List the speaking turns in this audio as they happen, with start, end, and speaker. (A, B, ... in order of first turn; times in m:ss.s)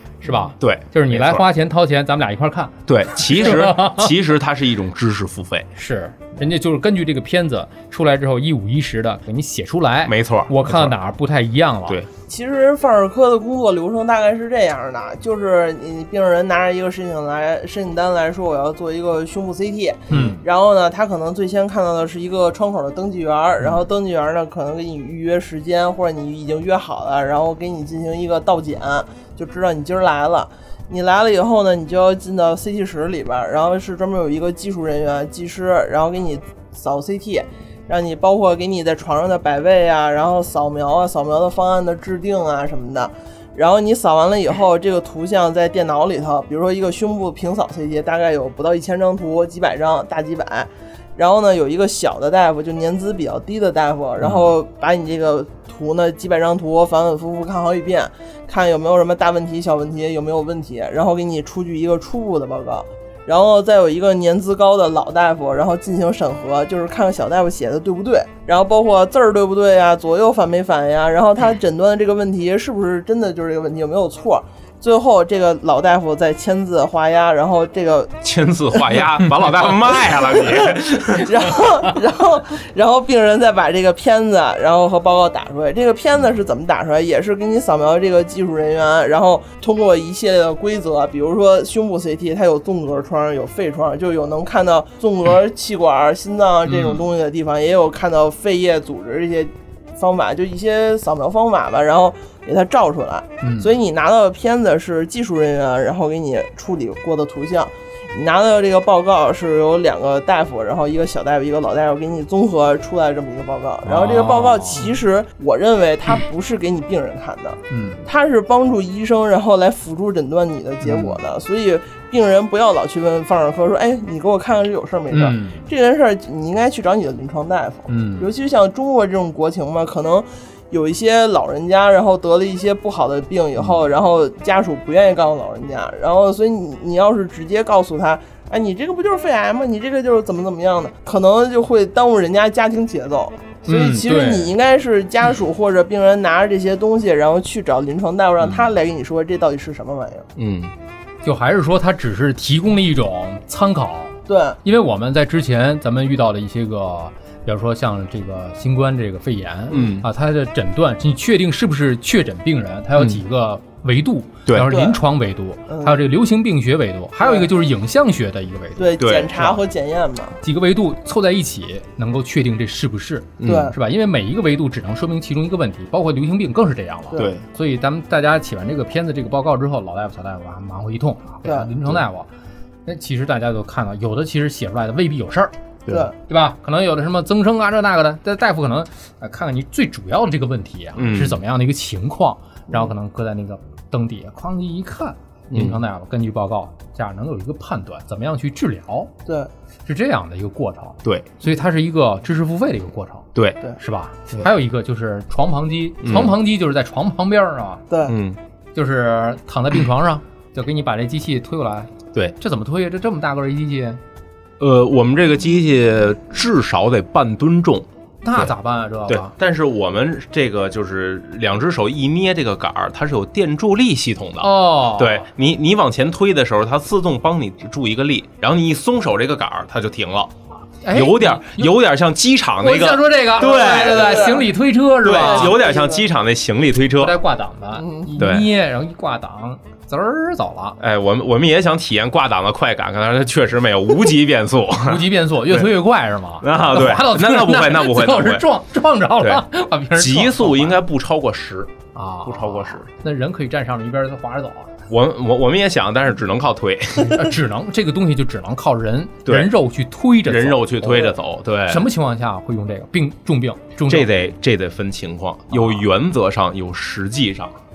0:00.2-0:04.1 A
0:00.4-0:01.4 B
0:02.9-0:05.7 B
0:05.8-0:12.0 A
0:10.0-0:11.0 B
0:12.3-1:18.2 C
0:20.1-0:20.4 A
1:18.2-1:21.5 B
1:18.8-1:19.0 C
1:20.0-2:30.3 C
1:36.7-1:37.0 A
1:43.4-1:43.7 A
1:53.8-1:55.0 A
1:57.7-1:58.0 A
2:00.8-2:01.2 A
2:05.1-2:05.7 A
2:07.9-2:08.3 A
2:23.7-2:24.5 A
2:30.4-2:30.7 B
2:31.2-2:49.6 A
2:34.3-2:34.6 C
2:39.7-2:40.1 B
2:44.5-2:44.7 B
2:44.7-2:45.0 C
2:45.7-2:46.0 C
2:47.2-2:47.5 C
2:48.8-2:50.4 C
2:49.0-2:49.5 B
2:50.4-3:02.3 A
2:53.4-2:53.7 B
2:53.4-2:53.8 C
2:57.2-2:57.4 B
3:02.9-3:05.5 A
3:06.2-3:19.1 A
3:11.0-3:11.4 B
3:15.5-3:15.8 B
3:19.9-3:27.8 A
3:21.0-3:21.3 B
3:26.0-3:26.4 B
3:27.9-3:28.2 C
3:28.1-3:28.4 B
3:28.8-3:34.0 A
3:34.6-3:38.5 B
3:38.2-3:39.3 A
3:39.1-3:50.4 B
3:44.4-3:45.3 A
3:50.8-3:51.7 A
3:50.9-3:54.4 B
3:52.6-3:55.6 A
3:53.4-3:54.5 C
3:55.0-3:57.2 B
3:55.0-3:56.1 C
3:57.0-4:00.8 A
3:57.8-3:58.2 C
3:58.2-3:58.5 B
4:00.8-4:05.7 B
4:04.8-4:10.8 A
4:06.4-4:08.5 B
4:09.2-4:09.4 B
4:10.0-4:11.7 B
4:11.9-4:14.8 A
4:12.2-4:12.8 B
4:14.9-4:17.3 B
4:17.0-4:21.2 A
4:19.2-4:19.5 B
4:20.3-4:21.9 B
4:21.7-4:24.1 A
4:23.9-4:27.6 B
4:25.5-4:25.8 A